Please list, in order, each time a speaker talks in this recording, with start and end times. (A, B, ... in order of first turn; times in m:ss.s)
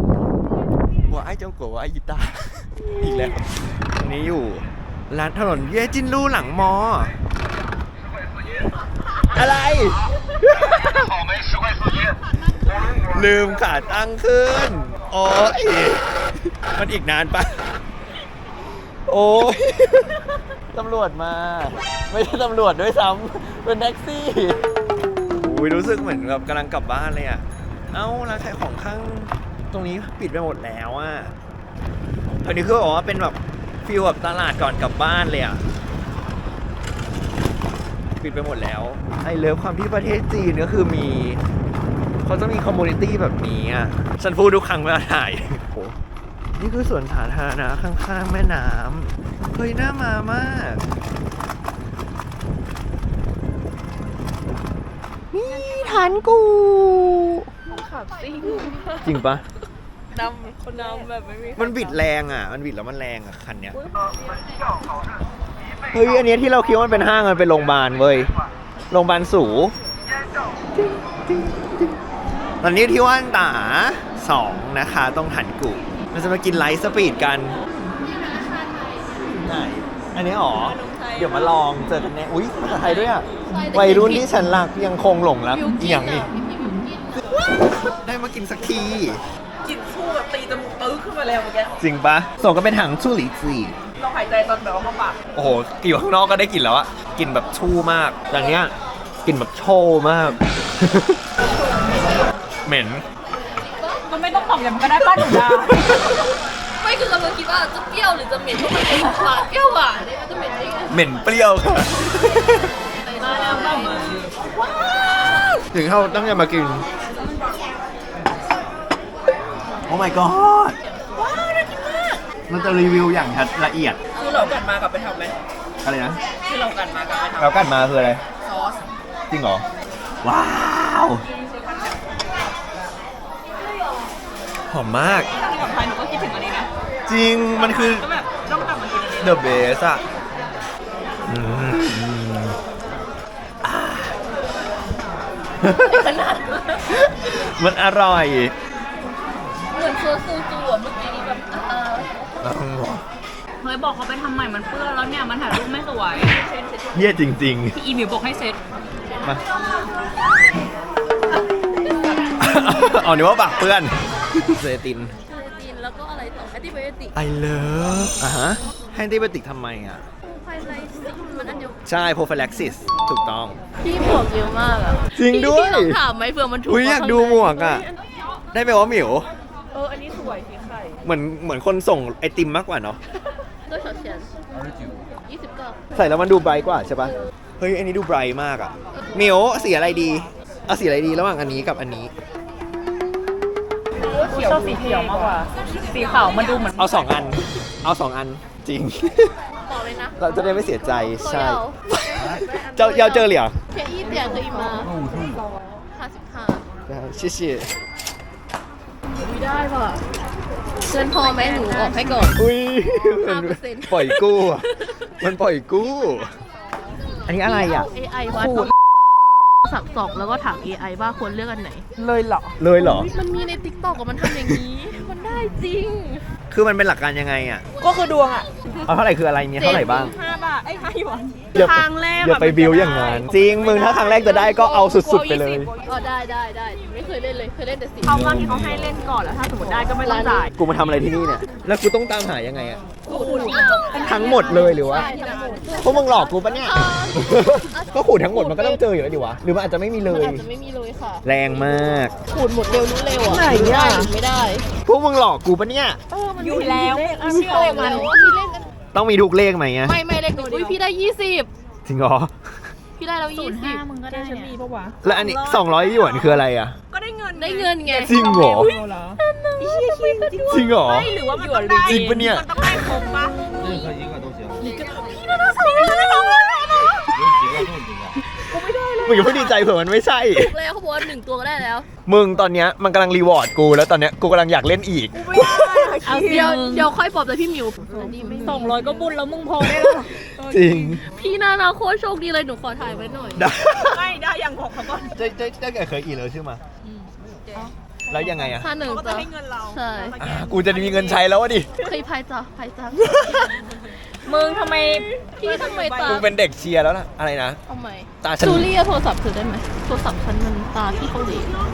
0:01.1-0:07.1 A
0:09.3-0:11.1 A
0:12.8-0:17.7 A
0:18.8-0:24.6 A
0:25.4-0:31.3 A
0:32.4-0:35.6 A
0:38.2-0:41.4 A
0:42.2-0:46.0 A
0:46.6-0:50.8 A
0:55.3-0:57.5 A
0:55.6-0:56.1 B
0:57.7-0:59.1 B
0:59.0-0:59.4 A
1:00.1-1:02.0 B
1:01.6-1:03.8 A
1:05.9-1:08.3 A
1:08.9-1:09.8 A
1:10.7-1:11.9 A
1:12.6-1:17.6 A
1:18.0-1:19.2 C
1:19.4-1:26.3 A
1:20.6-1:21.5 B
1:22.6-1:23.3 D
1:23.4-1:24.3 C
1:25.5-1:27.3 C
1:27.3-1:29.2 A
1:29.6-1:31.8 B
1:31.8-1:33.8 A
1:33.9-1:35.2 B
1:35.3-1:41.2 A
1:42.6-1:43.0 A
1:43.5-1:44.0 C
1:44.0-1:46.1 D
1:45.2-1:46.0 A
1:45.8-1:51.0 C
1:50.9-1:52.7 A
1:52.9-1:54.1 C
1:53.2-1:54.3 D
1:55.7-1:56.9 A
1:59.9-2:00.8 A
2:01.2-2:02.1 B
2:02.5-2:04.0 A
2:04.1-2:05.3 B
2:05.8-2:06.2 A
2:06.4-2:07.5 B
2:07.4-2:08.2 A
2:08.4-2:08.8 B
2:09.3-2:09.6 A
2:10.2-2:11.2 A
2:11.3-2:12.3 B
2:14.7-2:15.3 A
2:15.3-2:16.7 D
2:17.0-2:18.1 A
2:17.6-2:19.4 D
2:19.2-2:20.0 A
2:21.2-2:22.6 A
2:23.6-2:24.2 A
2:25.6-2:26.3 A
2:25.8-2:26.5 C
2:26.9-2:28.5 A
2:29.7-2:32.3 C
2:32.4-2:33.0 A
2:33.6-2:36.4 D
2:36.2-2:37.1 B
2:36.9-2:37.8 A
2:37.7-2:38.6 D
2:42.4-2:45.2 A
2:45.2-2:47.2 C
2:47.1-2:50.0 A
2:50.2-2:51.8 C
2:51.8-2:53.6 A
2:53.8-2:57.9 C
2:55.1-2:56.0 A
2:56.6-2:57.9 A
2:58.5-2:59.3 A
2:59.7-3:01.0 B
3:01.0-3:03.0 A
3:03.6-3:04.3 C
3:05.0-3:05.8 C
3:05.9-3:12.1 A
3:14.0-3:16.4 B
3:14.2-3:17.1 D
3:16.7-3:19.4 A
3:19.6-3:21.8 C
3:20.2-3:23.6 A
3:22.1-3:23.4 B
3:23.7-3:24.9 C
3:24.0-3:25.8 B
3:25.9-3:26.6 C
3:26.8-3:27.7 A
3:29.1-3:30.0 C
3:30.9-3:32.4 C
3:31.2-3:31.8 D
3:32.3-3:36.4 A
3:33.1-3:34.2 C
3:37.2-3:37.9 A
3:37.4-3:38.7 C
3:38.3-3:38.7 B
3:39.6-3:41.9 C
3:42.0-3:42.5 B
3:42.6-3:43.1 A
3:42.8-3:46.3 C
3:46.5-3:47.6 A
3:47.8-3:48.5 B
3:48.8-3:50.1 A
3:49.6-3:50.2 C
3:49.7-3:51.5 D
3:51.5-3:55.7 A
3:51.5-3:55.9 B
3:52.9-3:53.7 D
3:55.8-3:58.2 C
3:58.1-4:00.4 D
3:58.1-4:00.5 B
4:00.0-4:01.1 C
4:00.5-4:02.8 A
4:03.1-4:06.3 B
4:03.1-4:08.8 C
4:03.3-4:05.1 D
4:04.0-4:05.1 A
4:05.8-4:10.5 A
4:10.1-4:11.2 C
4:11.2-4:12.1 A
4:12.3-4:14.7 C
4:13.2-4:14.1 B
4:13.5-4:13.9 A
4:14.8-4:16.0 A
4:16.1-4:18.3 B
4:16.4-4:18.1 D
4:17.4-4:18.6 C
4:18.9-4:20.0 A
4:19.8-4:21.5 C
4:20.3-4:20.8 B
4:21.8-4:22.8 A
4:23.0-4:23.8 C
4:23.3-4:26.4 D
4:24.1-4:25.0 B
4:25.0-4:26.8 A
4:26.9-4:32.1 B
4:27.4-4:28.2 C
4:28.0-4:28.7 A
4:29.6-4:33.9 D
4:30.5-4:31.1 A
4:31.8-4:32.5 A
4:34.6-4:36.7 D
4:35.0-4:36.3 B
4:38.5-4:39.6 B
4:39.0-4:40.6 A
4:40.3-4:41.9 C
4:42.0-4:46.0 A
4:45.1-4:46.5 B
4:46.0-4:46.9 D
4:46.2-4:49.1 C
4:47.8-4:48.7 B
4:48.4-4:50.2 D
4:49.6-4:51.0 A
4:50.4-4:51.0 B
4:51.1-4:53.5 C
4:53.4-4:54.1 A
4:53.8-4:55.0 D
4:54.1-4:55.1 B
4:55.0-4:56.6 A
4:56.8-4:57.1 C
4:57.5-4:58.2 D
4:58.1-4:58.7 A
4:58.5-5:00.2 C
4:58.8-5:01.2 D
5:00.2-5:01.7 A
5:01.8-5:03.7 C
5:03.7-5:06.2 D
5:05.4-5:06.3 C
5:06.0-5:07.6 A
5:07.7-5:11.5 C
5:08.2-5:08.7 A